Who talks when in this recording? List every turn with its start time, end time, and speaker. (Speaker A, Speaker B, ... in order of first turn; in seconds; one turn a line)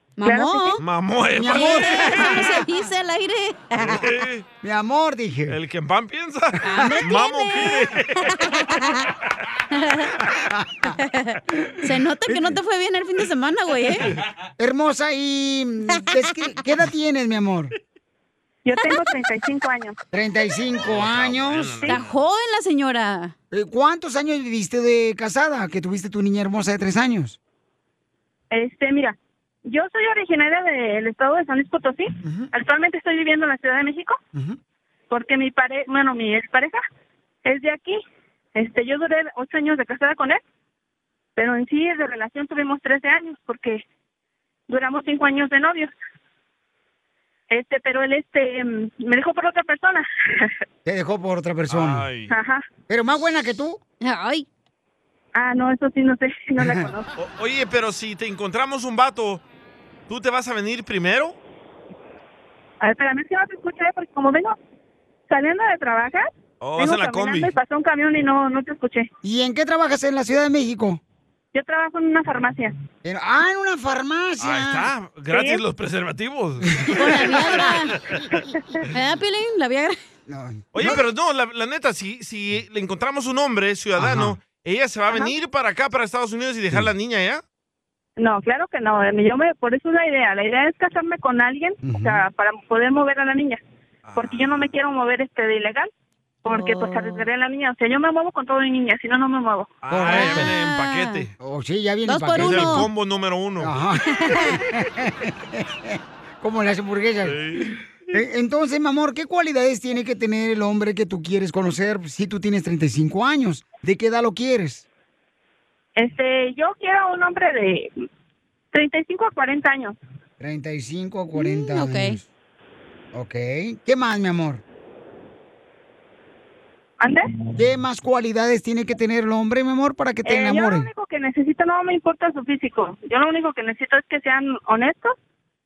Speaker A: 0.2-0.8
Speaker B: 0.2-0.8
Speaker C: 0.8-2.5
Speaker D: 1.3-2.4
Speaker A: 1.5-4.0
Speaker C: 3.8-4.4
Speaker D: 4.6-5.6
Speaker C: 5.5-8.4
Speaker A: 6.6-9.1
Speaker D: 6.7-7.0
Speaker A: 9.7-10.2
Speaker A: 11.0-14.1
Speaker D: 12.3-12.6
Speaker D: 14.6-17.7
Speaker B: 18.6-19.9
Speaker A: 18.8-19.1
Speaker D: 20.1-21.9
Speaker C: 20.8-22.1
Speaker A: 21.9-23.3
Speaker D: 23.5-27.4
Speaker B: 28.5-34.2
Speaker D: 32.2-32.5
Speaker B: 35.1-36.8
Speaker B: 37.4-38.0
Speaker B: 38.5-40.4
Speaker B: 41.4-43.8
Speaker B: 44.7-45.9
Speaker B: 47.5-50.5
Speaker D: 50.8-52.1
Speaker C: 51.7-52.3
Speaker B: 52.3-52.6
Speaker D: 52.9-53.8
Speaker A: 54.0-54.5
Speaker B: 55.3-57.1
Speaker D: 56.6-56.9
Speaker C: 57.2-59.4
Speaker C: 60.1-61.4
Speaker B: 62.8-64.5
Speaker B: 65.3-69.1
Speaker C: 66.6-67.5
Speaker D: 69.2-71.0
Speaker B: 71.5-72.7
Speaker D: 73.0-74.9
Speaker C: 74.4-78.4
Speaker B: 75.3-75.6
Speaker D: 76.9-77.2
Speaker A: 76.9-77.9
Speaker A: 78.9-80.0
Speaker D: 80.3-81.0
Speaker C: 80.7-87.4
Speaker D: 84.0-84.3
Speaker B: 88.2-93.6
Speaker D: 91.8-92.2
Speaker C: 94.0-94.6
Speaker B: 94.1-95.9
Speaker B: 96.4-99.7
Speaker A: 96.5-97.2
Speaker C: 99.8-101.3
Speaker D: 99.9-100.5
Speaker A: 100.1-101.2
Speaker D: 101.4-102.9
Speaker A: 102.0-102.9
Speaker C: 102.3-103.7
Speaker D: 103.6-114.8
Speaker A: 104.2-104.6
Speaker C: 107.2-107.8
Speaker B: 116.0-117.9
Speaker B: 118.7-120.0
Speaker D: 120.4-122.2
Speaker A: 121.3-122.2
Speaker D: 123.1-124.6
Speaker B: 127.0-127.3
Speaker D: 127.6-130.9
Speaker B: 130.2-135.1